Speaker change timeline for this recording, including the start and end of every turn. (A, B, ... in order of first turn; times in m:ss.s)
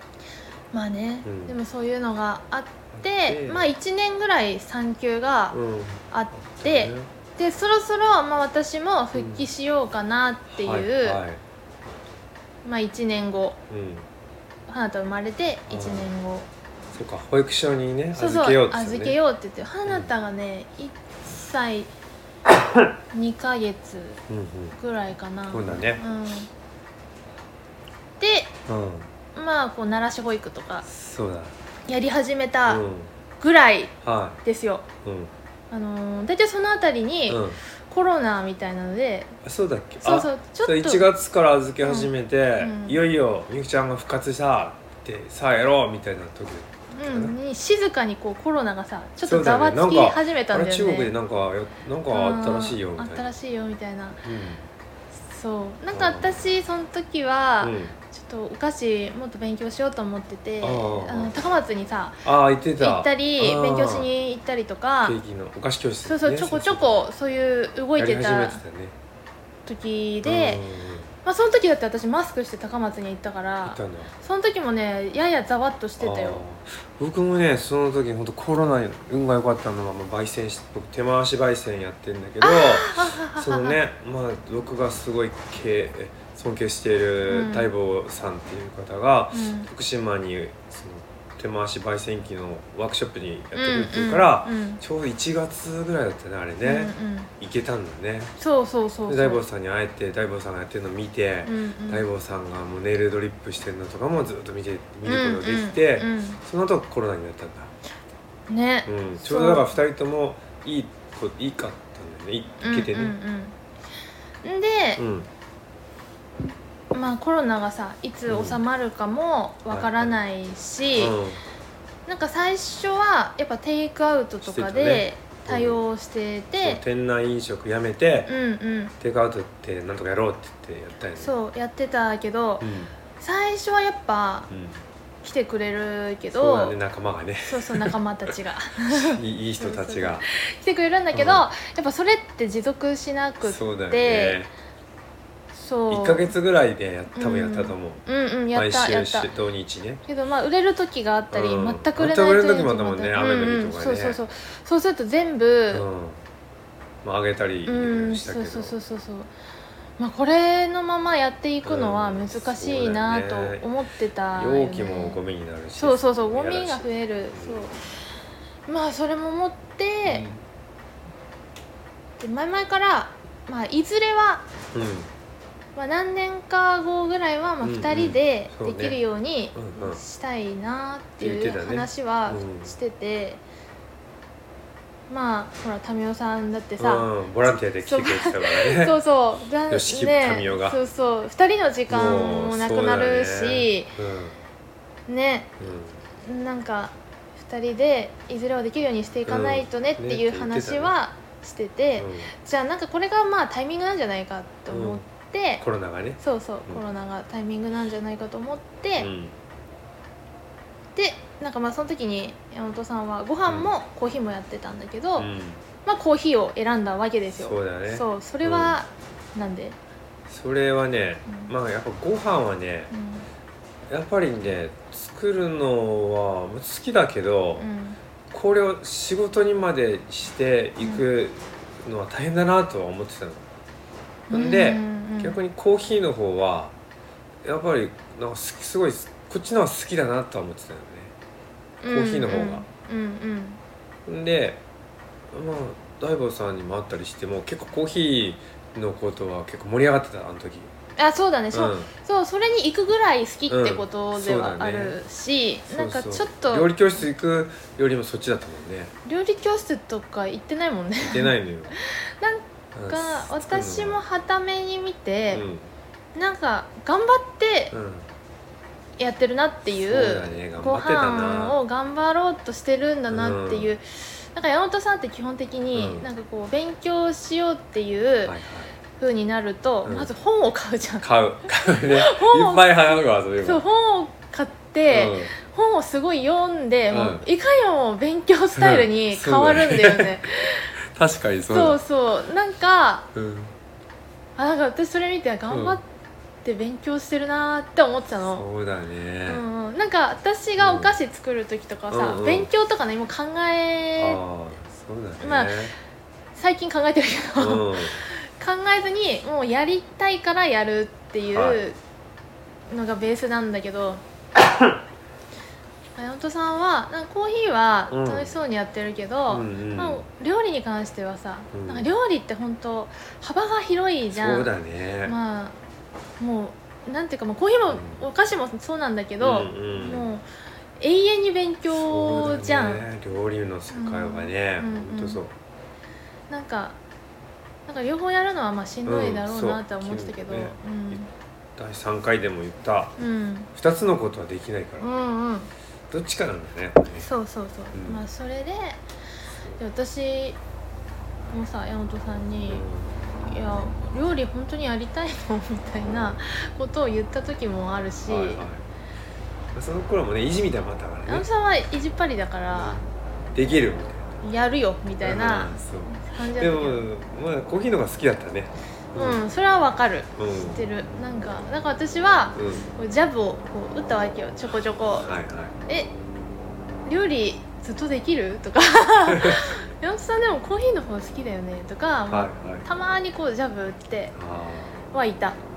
0:00.7-0:05.6 A
0:01.2-0:01.6 B
0:02.9-0:03.7 B
0:05.5-0:07.1 B
0:06.1-0:11.2 A
0:09.1-0:09.5 B
0:10.5-0:11.4 B
0:12.6-0:13.6 A
0:13.7-0:14.1 B
0:14.7-0:16.5 A
0:15.7-0:16.1 B
0:16.9-0:19.2 B
0:18.1-0:21.9 A
0:23.1-0:24.2 A
0:24.3-0:24.8 B
0:24.8-0:26.5 A
0:25.5-0:26.0 B
0:28.2-0:28.5 A
0:28.7-0:29.1 B
0:29.3-0:30.9 A
0:30.8-0:31.6 B
0:31.9-0:32.8 A
0:32.7-0:33.1 B
0:33.4-0:34.8 A
0:34.0-0:34.4 B
0:35.0-0:35.3 B
0:35.7-0:39.4 A
0:37.3-0:37.6 B
0:39.4-0:47.4 B
0:40.0-0:41.0 A
0:41.8-0:43.0 A
0:46.9-0:51.1 A
0:49.2-0:53.3 B
0:52.1-0:54.2 A
0:54.2-0:54.6 B
0:55.2-1:02.2 A
0:55.9-0:56.4 B
0:57.6-0:58.0 B
1:00.6-1:01.3 B
1:02.2-1:04.1 B
1:02.8-1:05.2 A
1:05.0-1:06.9 B
1:06.0-1:08.6 A
1:08.0-1:09.0 B
1:09.6-1:10.6 A
1:10.2-1:11.1 B
1:11.2-1:16.4 A
1:13.6-1:14.1 B
1:16.0-1:38.3 B
1:22.4-1:23.8 A
1:27.3-1:27.7 A
1:29.3-1:29.7 A
1:33.5-1:34.8 A
1:36.6-1:37.3 A
1:38.4-1:39.4 A
1:39.1-1:47.7 B
1:41.4-1:42.0 A
1:45.0-1:46.4 A
1:48.5-1:49.7 A
1:48.8-1:53.2 B
1:52.6-1:53.5 A
1:54.4-1:55.0 A
1:55.0-1:55.3 B
1:56.9-2:01.1 A
1:58.3-1:58.6 B
1:59.7-2:00.1 B
2:00.9-2:01.4 B
2:02.1-2:06.8 A
2:04.4-2:05.8 B
2:06.6-2:08.3 B
2:08.3-2:08.9 A
2:09.0-2:11.3 B
2:11.2-2:14.5 A
2:12.6-2:12.9 B
2:14.5-2:14.8 B
2:15.2-2:16.8 A
2:16.3-2:18.3 B
2:17.4-2:24.4 A
2:18.9-2:20.2 B
2:21.1-2:21.5 B
2:23.4-2:24.5 B
2:25.5-2:26.3 A
2:25.9-2:30.0 B
2:27.1-2:29.3 A
2:30.0-2:35.8 A
2:31.3-2:34.2 B
2:35.7-2:36.2 B
2:37.0-2:38.8 B
2:37.6-2:39.3 A
2:40.0-2:45.2 A
2:41.6-2:43.7 B
2:44.3-2:47.7 B
2:45.8-2:47.8 A
2:48.7-2:50.3 A
2:50.0-2:50.4 B
2:52.2-2:54.4 A
2:54.7-2:55.1 B
2:55.8-3:03.4 A
2:57.6-2:59.0 B
2:59.5-3:00.0 B
3:01.2-3:02.8 B
3:05.1-3:07.1 A
3:06.8-3:09.0 B
3:07.8-3:13.9 A
3:09.7-3:10.8 B
3:11.9-3:14.4 B
3:15.1-3:15.6 A
3:15.6-3:16.0 B
3:16.2-3:25.6 A
3:19.3-3:20.9 B
3:22.0-3:22.3 B
3:24.7-3:25.0 B
3:25.6-3:26.8 B
3:26.2-3:29.1 A
3:29.0-3:29.4 B
3:30.9-3:35.3 A
3:33.5-3:33.7 B
3:35.2-3:35.6 B
3:35.8-3:39.8 A
3:37.3-3:38.8 B
3:40.3-3:42.9 B
3:42.9-3:43.2 A
3:43.9-3:47.7 B
3:47.6-3:48.0 A
3:48.3-3:53.5 B
3:54.3-3:56.8 B
3:54.3-3:55.4 A
3:57.4-4:01.1 B
4:01.8-4:03.6 A
4:01.9-4:02.6 B
4:04.0-4:04.6 B
4:05.3-4:10.7 B
4:11.0-4:16.7 A
4:11.5-4:11.9 B
4:13.5-4:15.0 B
4:15.7-4:18.9 B
4:19.0-4:25.4 A
4:21.0-4:21.7 B
4:22.7-4:24.0 B
4:25.3-4:25.7 B
4:26.1-4:27.7 A
4:27.7-4:28.1 B
4:29.0-4:38.3 A
4:29.8-4:31.6 B
4:33.1-4:33.7 B
4:35.7-4:36.1 B
4:38.2-4:38.7 B
4:39.0-4:50.7 A
4:39.8-4:40.1 B
4:41.0-4:43.6 B
4:44.9-4:45.3 B
4:46.9-4:47.2 B
4:48.5-4:50.2 B
4:50.8-4:51.8 B
4:51.5-4:53.1 A
4:53.1-4:53.5 B
4:54.4-4:55.8 A
4:55.5-4:55.8 B
4:56.4-4:58.4 A
4:58.2-4:59.4 B
4:59.3-5:04.2 A
5:00.6-5:01.0 B
5:01.9-5:02.5 B
5:04.0-5:05.7 B
5:05.2-5:05.6 A
5:06.3-5:11.8 A
5:07.4-5:08.0 B
5:11.3-5:11.6 B
5:12.7-5:14.0 A
5:16.0-5:24.5 A
5:17.9-5:18.4 B
5:19.3-5:20.0 B
5:21.5-5:21.9 B
5:24.1-5:25.2 B
5:25.0-5:25.6 A
5:26.2-5:30.2 A
5:27.7-5:28.0 B
5:29.2-5:30.1 B
5:30.8-5:32.8 A
5:31.7-5:35.3 B
5:33.7-5:35.2 A
5:36.3-5:36.8 A
5:37.7-5:41.1 A
5:38.8-5:41.0 B
5:41.6-5:43.0 B
5:43.0-5:43.5 A
5:43.5-5:44.9 B
5:44.8-5:45.5 A
5:45.9-5:47.1 B
5:47.0-5:48.8 A
5:47.7-5:48.0 B
5:49.6-5:50.4 A
5:51.3-5:52.6 A
5:52.5-5:53.0 B
5:53.2-5:58.4 A
5:58.1-5:58.6 B
5:59.5-6:01.3 B
6:01.0-6:02.8 A
6:02.5-6:04.2 B
6:04.2-6:06.8 A
6:05.0-6:09.2 B
6:08.9-6:15.1 A
6:10.2-6:10.6 B
6:12.4-6:12.6 B
6:15.0-6:15.5 B
6:15.7-6:15.9 A
6:16.8-6:24.1 A
6:19.1-6:19.5 B
6:22.1-6:22.7 B
6:24.1-6:24.8 B
6:24.9-6:25.4 A